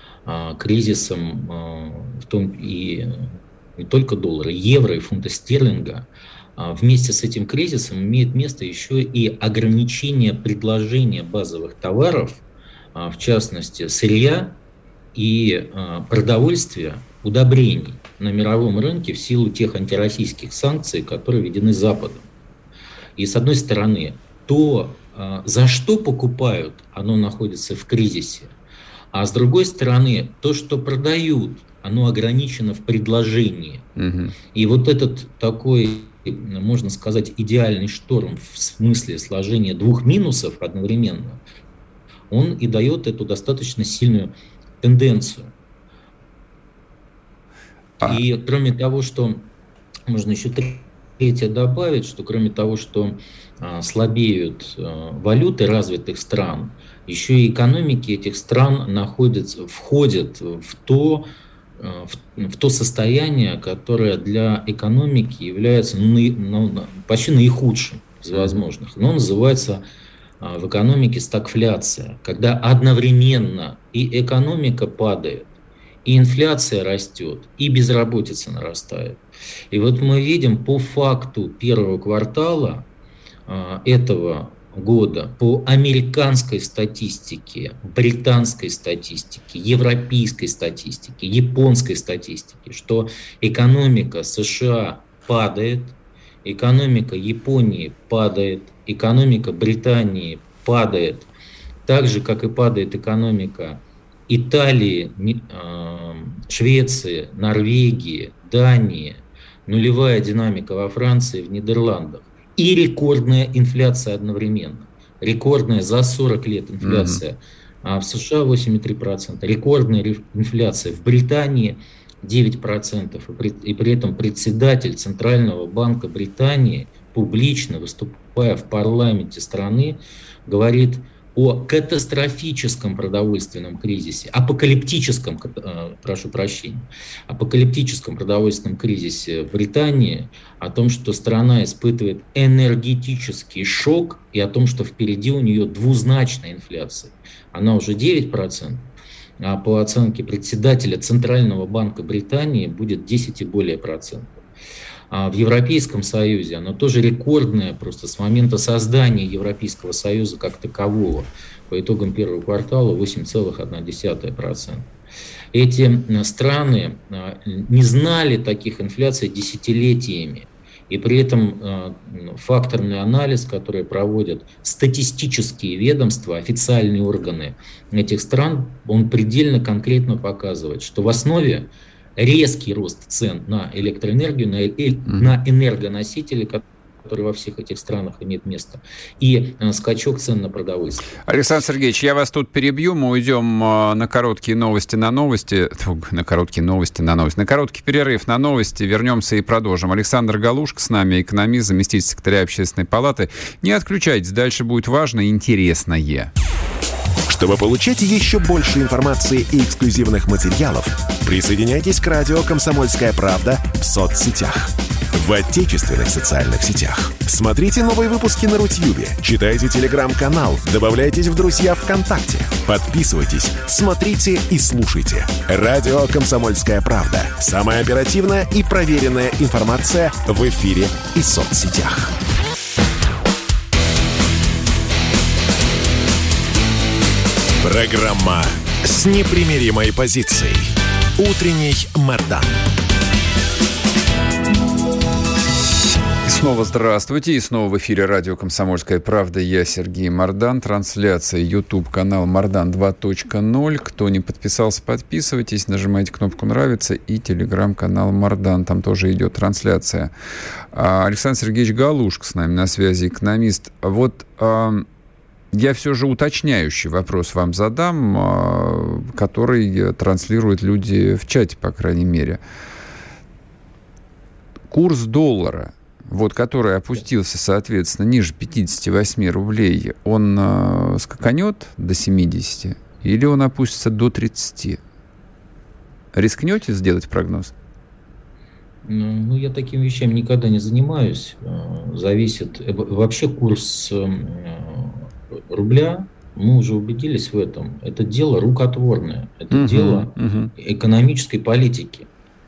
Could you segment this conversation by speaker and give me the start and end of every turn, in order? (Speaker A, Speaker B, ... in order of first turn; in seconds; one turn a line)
Speaker A: 0.3-14.6
Speaker A: 15.2-22.3
Speaker A: 23.2-28.6
Speaker A: 29.1-33.9
Speaker B: 34.0-34.4
Speaker A: 34.5-41.4
Speaker A: 42.3-45.5
Speaker A: 48.0-49.5
Speaker A: 50.1-69.8
Speaker B: 68.3-68.6
Speaker A: 70.4-75.5
Speaker A: 76.0-82.9
Speaker A: 83.5-101.3
Speaker A: 101.8-148.9
Speaker B: 116.8-117.2
Speaker A: 149.4-154.5
Speaker A: 155.1-164.9
Speaker A: 165.5-191.1
Speaker B: 191.2-206.3
Speaker C: 207.3-232.2
Speaker C: 237.6-242.6
Speaker B: 246.2-260.1
Speaker B: 260.7-264.9
Speaker B: 265.5-272.4
Speaker B: 274.7-284.8
Speaker B: 286.1-287.5
Speaker A: 288.9-302.1
Speaker B: 299.5-300.5